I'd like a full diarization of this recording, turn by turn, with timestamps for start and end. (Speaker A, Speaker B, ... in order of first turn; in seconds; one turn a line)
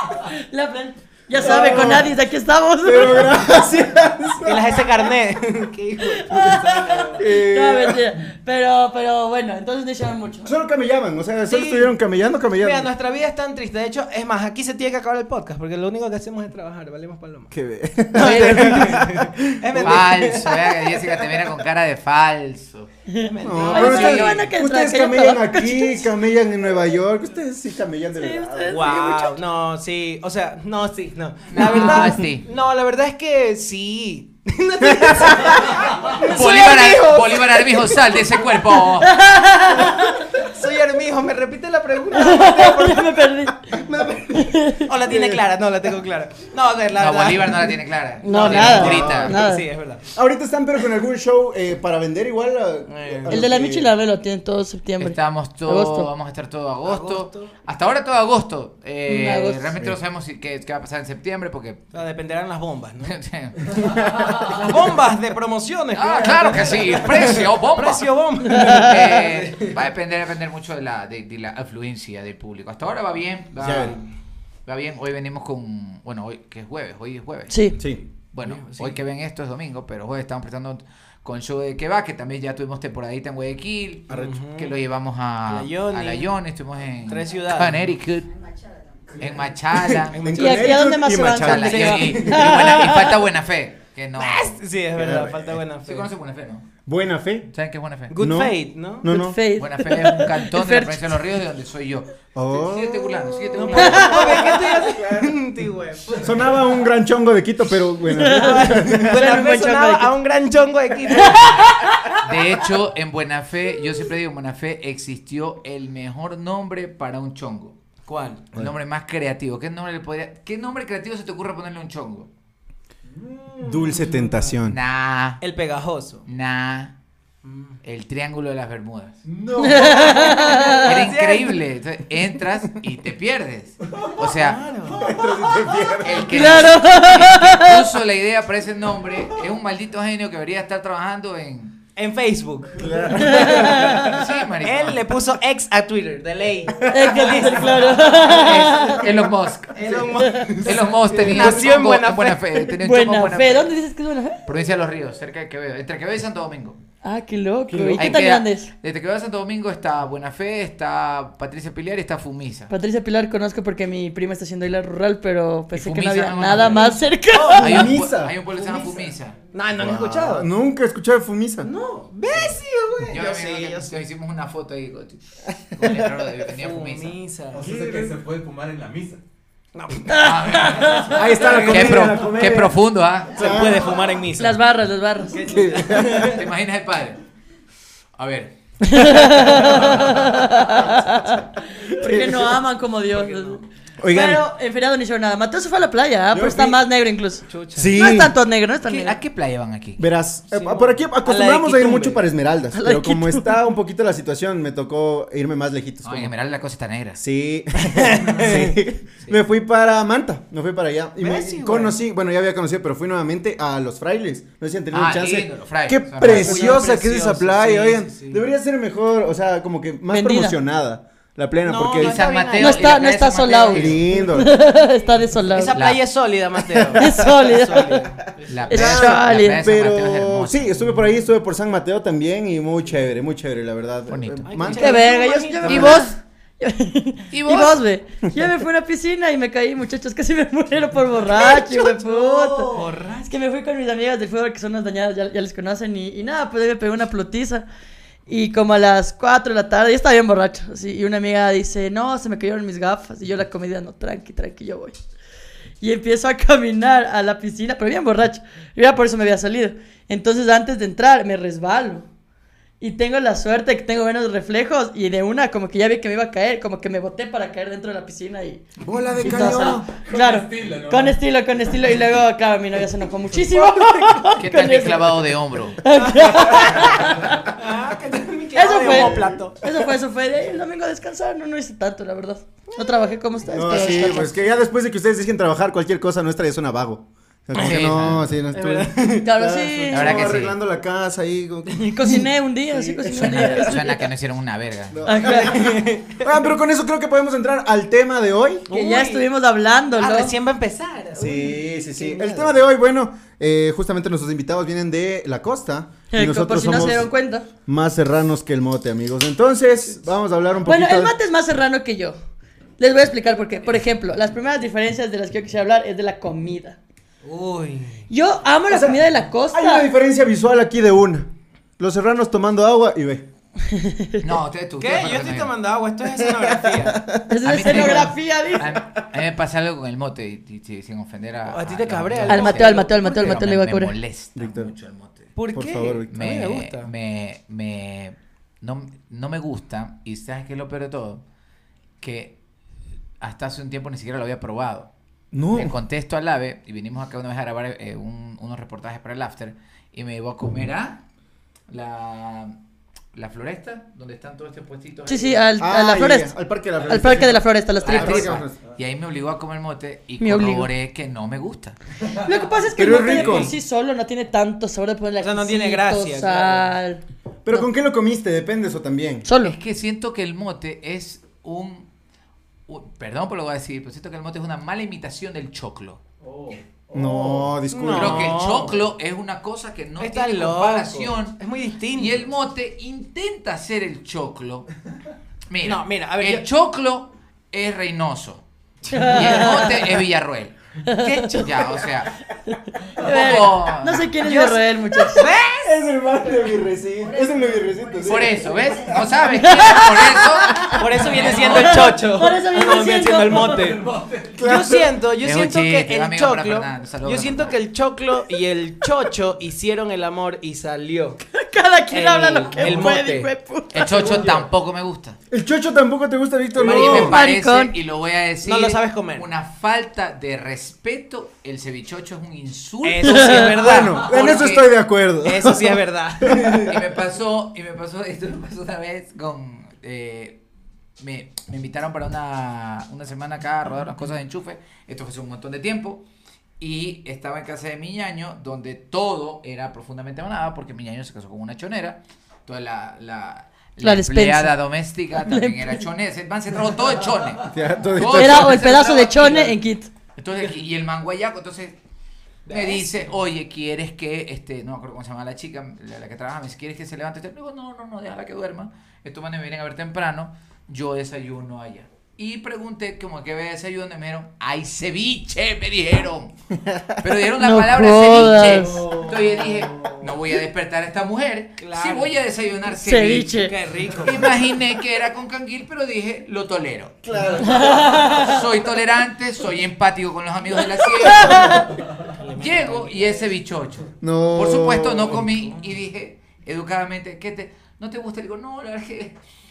Speaker A: 0.3-3.4
Speaker B: 1.3-2.2
Speaker B: 2.8-4.8
Speaker C: 4.5-7.2
Speaker A: 6.0-10.5
Speaker B: 7.2-8.1
Speaker B: 10.4-12.9
Speaker C: 11.5-11.9
Speaker C: 12.6-17.5
Speaker B: 17.5-20.1
Speaker C: 18.1-21.4
Speaker D: 18.2-19.0
Speaker D: 19.8-22.9
Speaker A: 23.1-26.1
Speaker C: 23.2-24.4
Speaker B: 23.4-29.0
Speaker D: 23.8-24.3
Speaker A: 28.1-29.4
Speaker C: 28.7-38.2
Speaker D: 31.5-32.5
Speaker B: 34.9-35.7
Speaker D: 36.1-39.2
Speaker A: 39.0-40.3
Speaker C: 40.3-43.2
Speaker A: 42.1-43.7
Speaker B: 43.7-44.2
Speaker A: 44.3-44.9
Speaker C: 44.8-50.0
Speaker B: 45.0-45.4
Speaker D: 47.0-49.4
Speaker A: 48.2-49.7
Speaker B: 48.5-49.4
Speaker B: 50.1-53.9
Speaker C: 52.9-53.4
Speaker A: 53.3-56.1
Speaker D: 55.0-61.9
Speaker C: 56.9-57.5
Speaker A: 59.1-59.7
Speaker C: 61.9-63.1
Speaker D: 63.0-63.9
Speaker E: 64.0-64.5
Speaker C: 64.5-69.7
Speaker D: 65.9-74.0
Speaker A: 68.5-68.9
Speaker B: 73.6-74.0
Speaker D: 74.7-77.8
Speaker A: 77.5-77.8
Speaker D: 78.3-88.3
Speaker C: 78.4-79.0
Speaker C: 84.1-84.7
Speaker C: 85.5-86.3
Speaker C: 87.0-87.9
Speaker B: 89.1-92.5
Speaker D: 89.2-90.2
Speaker C: 90.1-90.8
Speaker A: 90.3-93.2
Speaker D: 91.3-94.6
Speaker C: 94.2-96.1
Speaker B: 95.0-95.5
Speaker D: 95.9-96.7
Speaker B: 96.9-97.5
Speaker D: 97.5-98.2
Speaker C: 98.1-99.1
Speaker B: 98.1-99.4
Speaker A: 99.1-101.2
Speaker D: 99.6-104.5
Speaker B: 102.3-104.2
Speaker C: 103.5-106.5
Speaker A: 103.8-104.5
Speaker B: 104.8-105.3
Speaker B: 106.2-109.2
Speaker A: 108.1-110.1
Speaker C: 108.2-111.7
Speaker A: 111.1-112.2
Speaker D: 112.2-117.8
Speaker C: 118.1-118.5
Speaker D: 118.5-122.3
Speaker E: 123.1-124.3
Speaker B: 123.6-124.8
Speaker D: 124.7-125.4
Speaker C: 125.4-126.2
Speaker D: 126.3-126.9
Speaker C: 127.4-127.8
Speaker D: 127.8-129.2
Speaker E: 129.2-130.5
Speaker A: 129.6-130.9
Speaker C: 130.0-131.6
Speaker D: 130.8-134.6
Speaker E: 133.9-134.2
Speaker C: 134.3-135.1
Speaker E: 134.9-135.9
Speaker B: 134.9-136.6
Speaker D: 136.0-141.8
Speaker A: 136.3-137.8
Speaker C: 142.0-143.7
Speaker B: 142.8-144.1
Speaker A: 143.2-144.2
Speaker D: 144.1-145.0
Speaker C: 144.6-148.4
Speaker B: 146.8-147.6
Speaker A: 146.9-149.0
Speaker D: 148.3-149.8
Speaker C: 149.7-152.5
Speaker A: 150.2-150.5
Speaker D: 150.6-153.7
Speaker B: 150.7-151.7
Speaker A: 152.8-154.4
Speaker D: 154.5-156.8
Speaker A: 157.0-158.7
Speaker B: 157.7-158.2
Speaker D: 158.0-162.7
Speaker A: 162.7-167.8
Speaker D: 165.7-167.0
Speaker C: 167.3-167.9
Speaker D: 167.6-169.4
Speaker B: 167.6-168.3
Speaker C: 168.5-170.5
Speaker B: 169.8-171.7
Speaker C: 171.6-173.9
Speaker D: 173.1-177.2
Speaker C: 176.5-178.1
Speaker E: 177.5-179.2
Speaker C: 179.8-182.1
Speaker A: 180.1-181.6
Speaker D: 180.2-183.4
Speaker B: 181.1-182.8
Speaker B: 183.3-184.0
Speaker C: 183.3-184.6
Speaker A: 184.4-185.8
Speaker C: 185.3-186.4
Speaker B: 185.5-186.4
Speaker D: 186.1-187.2
Speaker D: 188.2-189.2
Speaker A: 188.8-199.2
Speaker B: 191.9-192.6
Speaker C: 193.1-193.6
Speaker B: 194.0-194.4
Speaker B: 196.3-196.8
Speaker C: 197.5-198.0
Speaker B: 197.8-198.3
Speaker D: 198.8-200.1
Speaker B: 200.0-206.3
Speaker C: 200.5-202.2
Speaker A: 202.7-203.6
Speaker D: 206.0-207.2
Speaker B: 207.2-222.2
Speaker C: 207.9-208.8
Speaker C: 211.2-212.0
Speaker D: 214.9-216.9
Speaker C: 216.2-218.4
Speaker A: 220.1-220.6
Speaker C: 221.7-223.1
Speaker D: 222.0-224.1
Speaker A: 222.6-225.8
Speaker B: 223.7-224.6
Speaker C: 225.5-228.7
Speaker D: 225.7-226.0
Speaker B: 226.7-227.2
Speaker A: 227.0-228.1
Speaker D: 228.5-230.8
Speaker A: 228.7-229.6
Speaker B: 228.7-236.0
Speaker D: 234.1-234.8
Speaker C: 234.5-236.0
Speaker A: 234.8-247.7
Speaker D: 235.7-236.1
Speaker D: 237.3-237.8
Speaker C: 241.3-243.3
Speaker A: 248.3-255.0
Speaker A: 255.8-262.1
Speaker A: 262.8-268.6
Speaker B: 268.8-269.9
Speaker A: 269.2-275.2
Speaker E: 269.2-271.2
Speaker B: 273.6-274.2
Speaker D: 274.4-275.8
Speaker A: 275.8-277.4
Speaker C: 276.0-276.9
Speaker C: 277.5-279.6
Speaker A: 278.6-284.4
Speaker B: 283.5-293.8
Speaker D: 287.6-288.4
Speaker C: 288.5-289.3
Speaker A: 289.2-290.3
Speaker D: 289.9-290.6
Speaker A: 291.8-293.9
Speaker D: 293.2-295.0
Speaker B: 294.9-298.7
Speaker A: 295.1-295.6
Speaker C: 295.2-296.4
Speaker C: 298.7-299.3
Speaker A: 298.7-300.3
Speaker C: 300.0-302.5
Speaker B: 301.2-307.1
Speaker A: 306.1-307.5
Speaker B: 307.7-311.1
Speaker A: 310.6-312.2
Speaker A: 312.8-316.8
Speaker C: 317.2-318.1
Speaker A: 318.1-319.9
Speaker B: 318.7-323.3
Speaker A: 323.7-324.2
Speaker D: 324.2-325.5
Speaker C: 324.8-327.0
Speaker B: 326.2-328.1
Speaker A: 327.3-328.7
Speaker D: 327.4-335.3
Speaker C: 331.5-333.4
Speaker A: 332.3-333.9
Speaker B: 334.4-334.7
Speaker C: 335.4-336.9
Speaker B: 335.5-336.3
Speaker D: 336.1-341.2
Speaker D: 342.0-342.4
Speaker D: 343.2-344.9
Speaker B: 345.3-345.7
Speaker D: 345.6-351.0
Speaker D: 351.7-352.6
Speaker D: 353.1-355.4
Speaker A: 355.1-356.3
Speaker B: 355.6-358.6
Speaker A: 356.9-358.4
Speaker D: 357.9-361.8
Speaker A: 360.2-360.7
Speaker A: 362.2-367.7
Speaker B: 362.8-363.5
Speaker C: 365.2-366.7
Speaker B: 367.4-369.3
Speaker A: 369.3-369.6
Speaker D: 369.4-371.9
Speaker D: 372.7-376.0
Speaker E: 376.2-377.6
Speaker B: 376.9-378.6
Speaker C: 377.7-378.8
Speaker D: 377.9-381.4
Speaker C: 380.0-382.3
Speaker D: 381.9-384.7
Speaker D: 385.5-390.6
Speaker C: 385.6-386.4
Speaker A: 388.9-389.9
Speaker A: 390.9-391.3
Speaker C: 391.0-391.8
Speaker D: 391.4-392.1
Speaker A: 392.5-395.3
Speaker D: 393.0-394.1
Speaker C: 394.2-395.7
Speaker B: 395.6-399.0
Speaker D: 398.0-401.9
Speaker A: 399.3-403.7
Speaker C: 400.7-403.8
Speaker E: 403.3-404.5
Speaker B: 404.4-404.9
Speaker C: 404.4-411.2
Speaker D: 405.2-407.6
Speaker A: 411.3-413.9
Speaker C: 411.9-413.3
Speaker D: 413.7-415.2
Speaker C: 413.9-414.4
Speaker B: 415.3-417.2
Speaker C: 416.6-417.2
Speaker D: 416.6-424.7
Speaker A: 416.9-417.7
Speaker C: 418.4-419.3
Speaker C: 422.8-424.1
Speaker A: 423.1-423.5
Speaker B: 423.6-426.8
Speaker C: 425.2-426.7
Speaker D: 426.7-430.4
Speaker D: 431.0-436.1
Speaker D: 436.6-449.6
Speaker A: 443.8-444.5
Speaker A: 445.2-445.8
Speaker B: 447.5-448.6
Speaker A: 448.1-449.9
Speaker D: 450.2-451.8
Speaker C: 452.5-453.1
Speaker D: 452.5-466.3
Speaker B: 466.7-466.9
Speaker D: 467.0-477.0
Speaker A: 467.4-468.8
Speaker B: 468.8-469.4
Speaker C: 471.6-472.1
Speaker A: 472.8-473.5
Speaker C: 473.3-474.3
Speaker B: 477.1-478.0
Speaker E: 477.1-477.6
Speaker A: 477.4-478.4
Speaker D: 477.8-481.6
Speaker A: 480.8-481.8
Speaker E: 481.7-482.1
Speaker C: 482.1-483.3
Speaker D: 482.4-489.2
Speaker B: 484.0-485.2